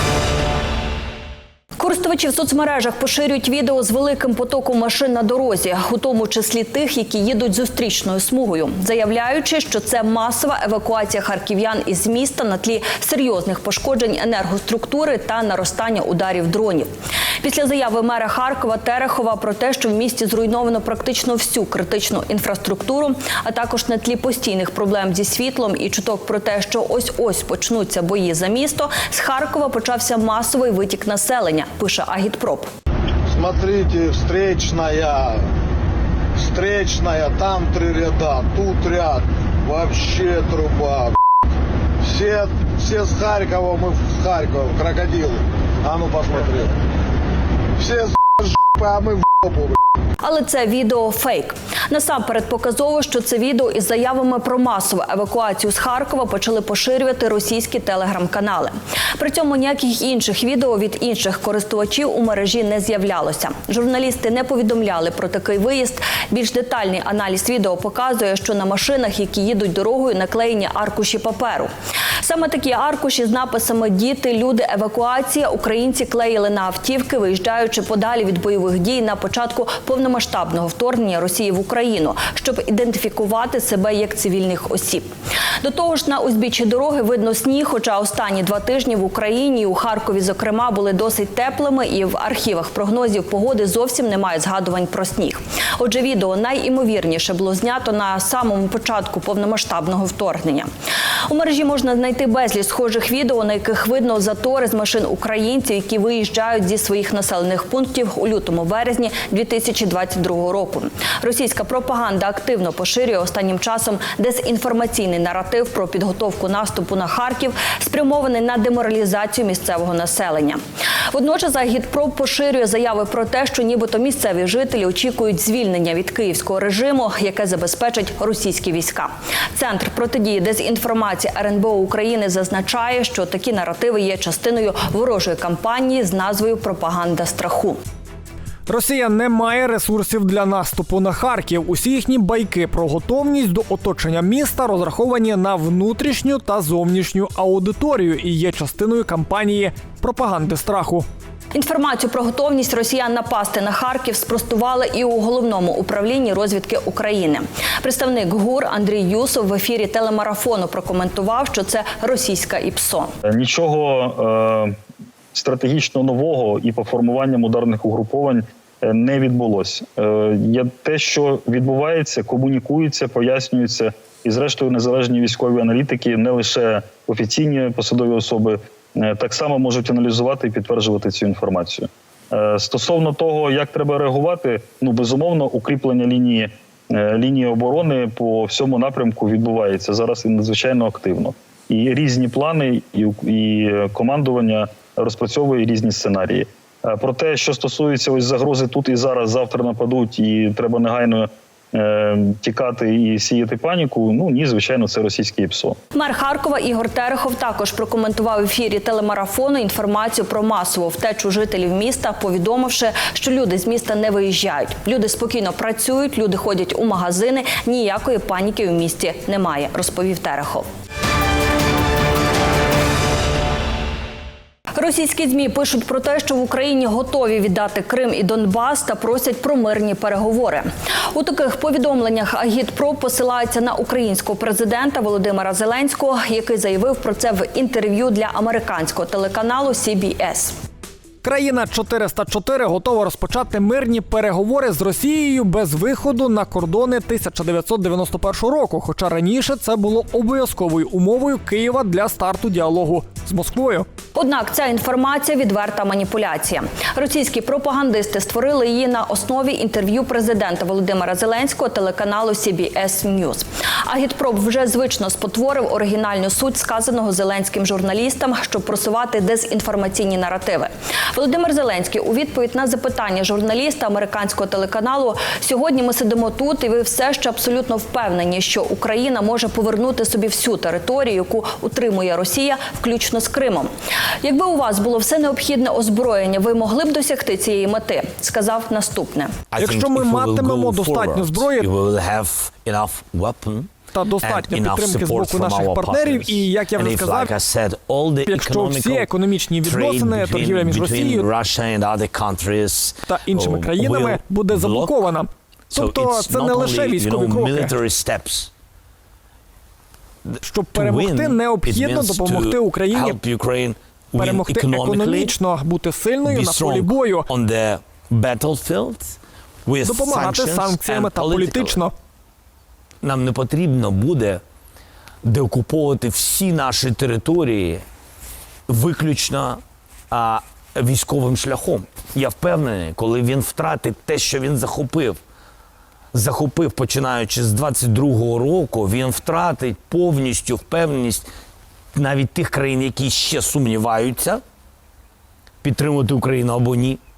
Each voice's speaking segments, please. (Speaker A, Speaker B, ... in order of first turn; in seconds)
Speaker A: 1.8-16.9, 17.4-32.7, 50.2-71.7, 72.2-85.1, 85.6-100.7, 101.3-120.6, 121.1-137.8, 151.5-163.1, 205.9-220.6, 224.8-240.5, 254.1-283.7, 284.2-289.3
Speaker B: 33.3-35.4, 36.4-41.2, 42.0-46.7, 47.8-49.8
Speaker C: 138.7-151.0, 241.2-253.8, 289.6-291.7, 293.9-297.3, 298.2-301.3, 303.1-307.7, 310.4-313.2, 314.1-317.3, 319.8-321.9
Speaker D: 163.2-164.7, 165.3-205.8
Speaker E: 289.5-299.1, 299.6-305.1, 305.7-308.5, 310.3-315.4, 316.2-321.8, 323.0-324.4, 325.2-327.8, 328.7-335.2, 336.1-341.3, 341.9-344.4, 345.6-347.0